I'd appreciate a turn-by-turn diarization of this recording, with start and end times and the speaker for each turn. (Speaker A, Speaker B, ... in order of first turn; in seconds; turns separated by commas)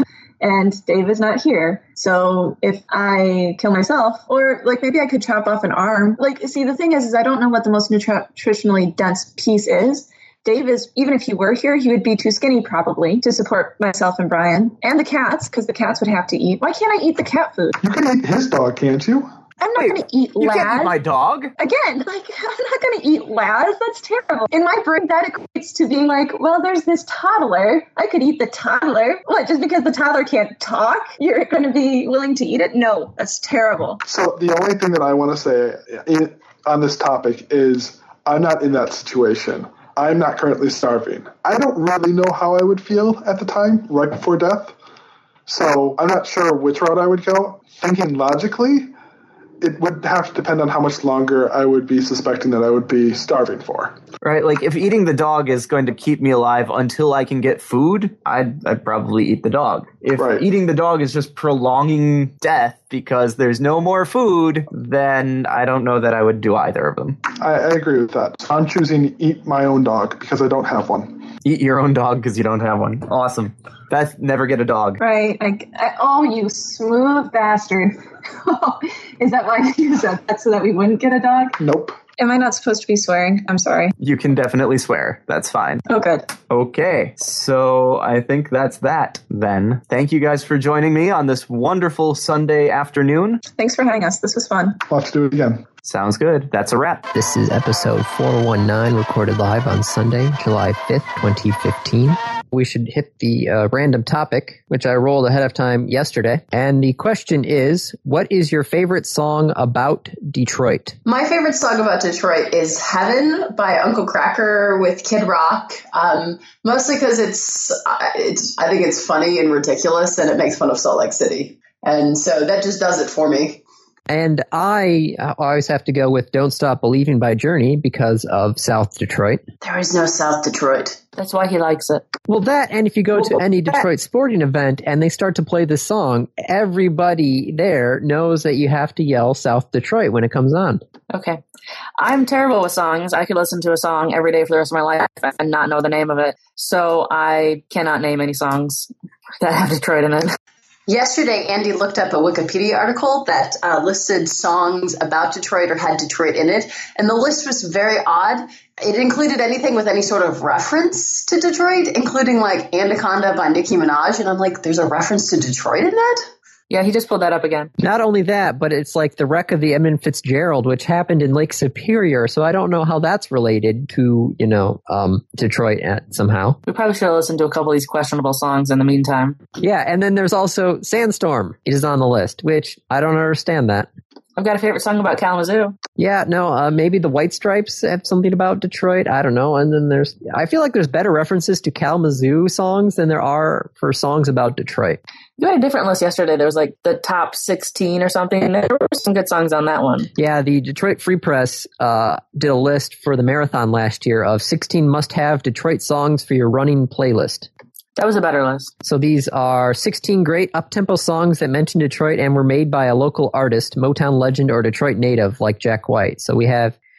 Speaker A: 0.4-17.8, Speaker B: 17.8-19.3, Speaker A: 19.6-20.9, Speaker C: 19.8-21.5, Speaker A: 21.6-34.0, Speaker B: 34.0-44.8, Speaker B: 45.5-48.9, Speaker B: 49.6-54.0, Speaker C: 54.2-67.2, Speaker B: 60.1-60.5, Speaker B: 67.4-71.2, Speaker C: 71.4-75.0, Speaker A: 75.0-81.6, Speaker B: 81.6-82.0, Speaker A: 82.2-83.9, Speaker C: 84.0-85.8, Speaker A: 85.9-86.3, Speaker C: 86.5-93.4, Speaker A: 93.5-94.8, Speaker B: 94.9-95.6, Speaker C: 95.8-97.1, Speaker D: 97.1-111.0, Speaker E: 111.0-123.6, Speaker D: 124.1-129.4, Speaker E: 129.6-131.0, Speaker F: 131.2-132.0, Speaker D: 132.3-140.8, Speaker F: 141.1-141.4, Speaker F: 142.0-150.3, Speaker E: 150.9-166.2, Speaker F: 166.7-167.7, Speaker D: 167.8-176.6, Speaker F: 176.7-179.4, Speaker D: 179.6-183.9, Speaker F: 184.4-185.8, Speaker D: 186.0-195.0, Speaker F: 195.4-200.1, Speaker D: 200.2-207.5, Speaker F: 207.9-208.7, Speaker D: 208.8-216.8